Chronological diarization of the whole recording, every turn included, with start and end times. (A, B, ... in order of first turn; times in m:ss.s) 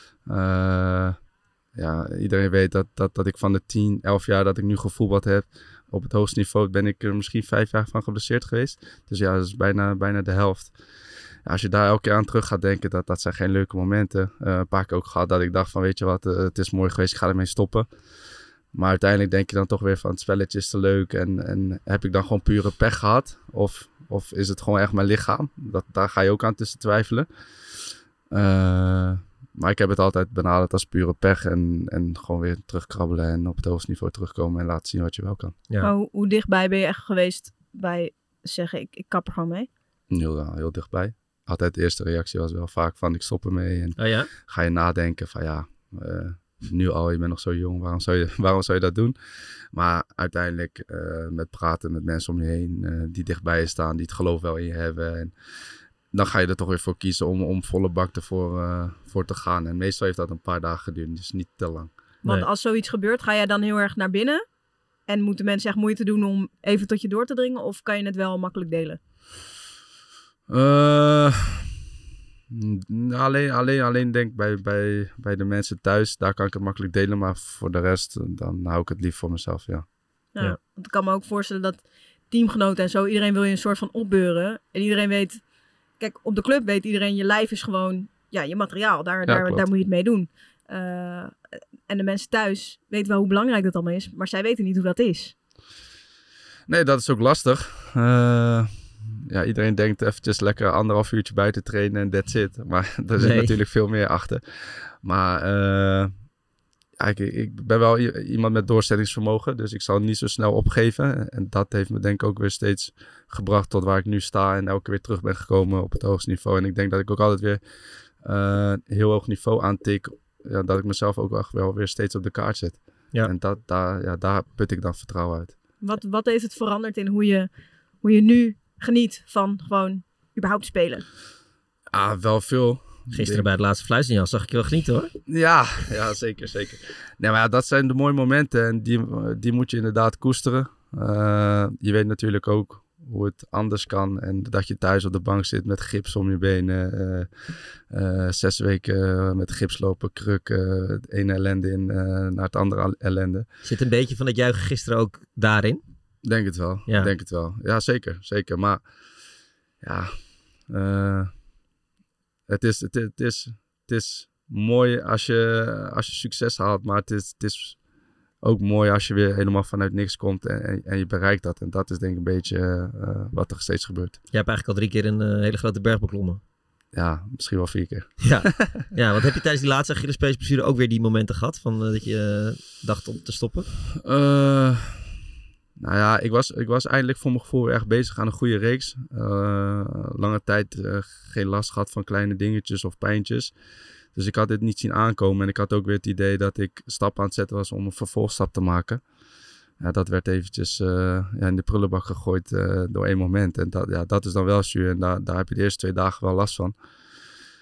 0:00.3-0:01.2 A
0:01.8-0:10.7 A
0:11.4-0:17.9 A
0:18.7-0:27.3 A
0:28.3-0:35.5 A
0:35.8-0:39.7 B
0:40.1-0:49.2 A
0:44.0-0:44.3 C
0:49.7-0:55.3 A
0:56.1-1:01.9 A
1:02.2-1:04.4 B
1:05.1-1:09.0 B
1:10.5-1:11.7 A
1:12.5-1:19.9 A
1:20.4-1:25.4 B
1:26.0-1:31.3 B
1:29.2-1:29.7 A
1:31.9-1:35.4 B
1:36.7-1:44.4 A
1:43.2-1:43.5 C
1:45.0-1:46.1 A
1:47.0-1:57.6 A
1:58.2-2:05.6 A
2:05.8-2:07.5 B
2:08.0-2:11.0 B
2:11.9-2:13.5 A
2:13.1-2:15.1 C
2:15.3-2:33.5 A
2:33.6-2:35.8 C
2:36.2-2:38.8 A
2:36.9-2:37.1 C
2:39.8-2:40.1 A
2:40.7-2:41.3 A
2:42.5-2:47.8 A
2:48.4-2:54.2 A
2:54.3-2:56.4 C
2:56.9-2:58.8 A
2:58.2-3:03.7 C
3:04.0-3:05.1 A
3:05.8-3:13.5 A
3:14.1-3:19.0 A
3:19.8-3:26.8 A